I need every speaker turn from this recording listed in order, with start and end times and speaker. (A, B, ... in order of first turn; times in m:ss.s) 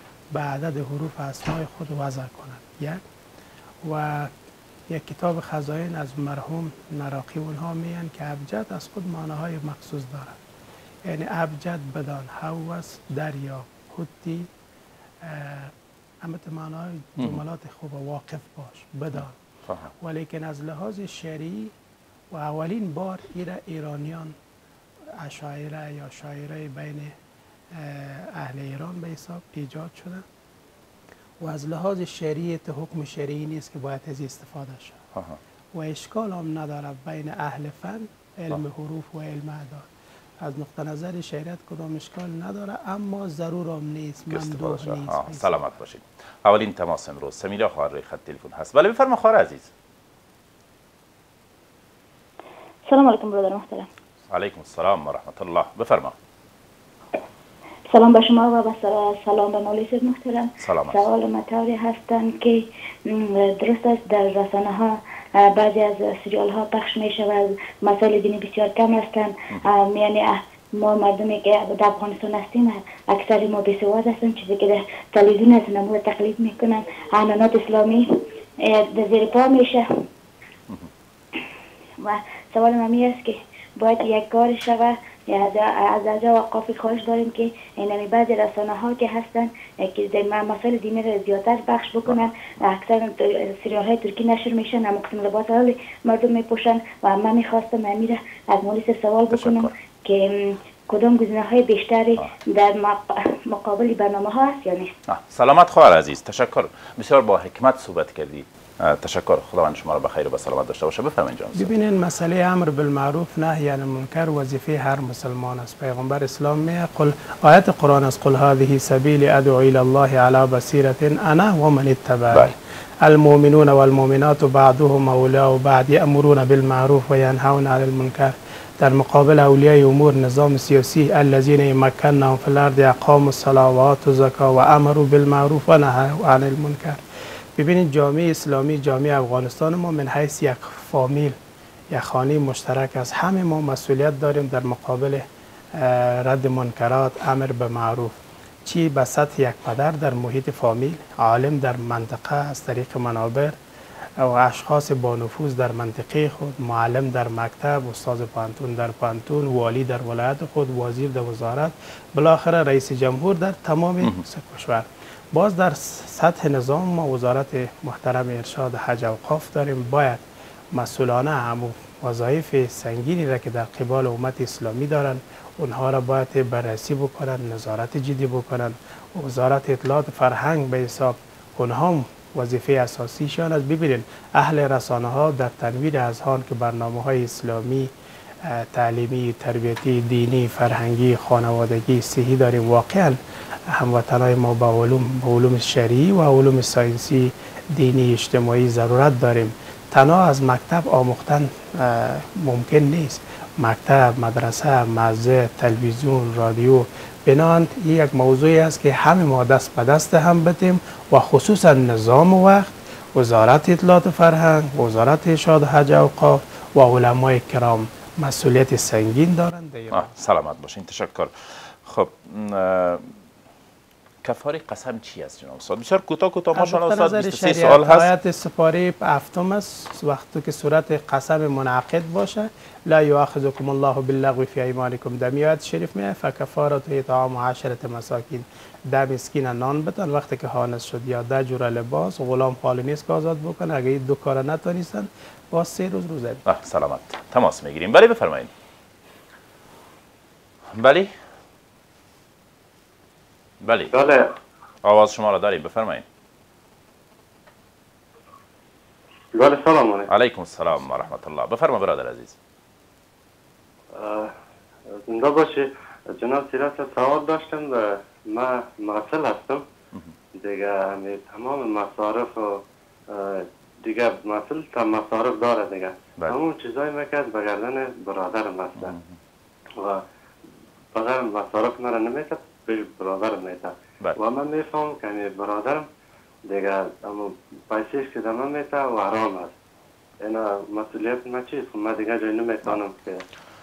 0:00.3-0:03.0 A
0:03.8-0:04.3 A
0:04.9-0:10.4 A
0:11.1-0:14.5 A
0:15.2-0:19.4 A
0:19.1-0:19.9 B
0:20.0-0:21.7 A
0:22.3-0:24.4 A
0:25.2-0:27.2 A
0:27.7-0:30.2 A
0:31.4-0:35.0 A
0:35.8-0:39.9 A
0:40.4-0:45.6 A
0:44.3-0:49.7 B
0:52.9-0:53.9 C
0:54.3-0:56.2 B
0:57.9-1:18.1 C
1:00.6-1:01.0 B
1:18.6-1:19.9 C
1:22.0-1:44.9 C
1:39.3-1:39.7 B
1:45.1-1:51.7 B
1:51.6-2:17.0 A
2:02.3-2:02.6 B
2:17.6-2:21.4 A
2:21.9-2:25.2 A
2:25.8-2:33.6 A
2:34.2-3:07.9 A
3:08.5-3:13.2 A
3:13.7-3:40.1 A
3:39.9-3:43.1 B
3:44.2-3:48.1 B
3:46.6-4:06.4 A
4:06.4-4:08.5 B
4:10.7-4:11.1 B
4:13.6-4:13.9 B
4:13.9-4:14.3 D
4:14.8-4:16.0 B
4:19.3-4:20.1 D
4:20.1-4:22.4 B
4:23.9-4:24.3 D
4:25.1-4:29.6 D
4:30.4-4:39.0 D
4:38.8-4:39.1 B
4:39.8-4:40.0 D
4:40.9-4:45.9 D
4:46.5-4:49.6 D
4:50.2-4:53.2 D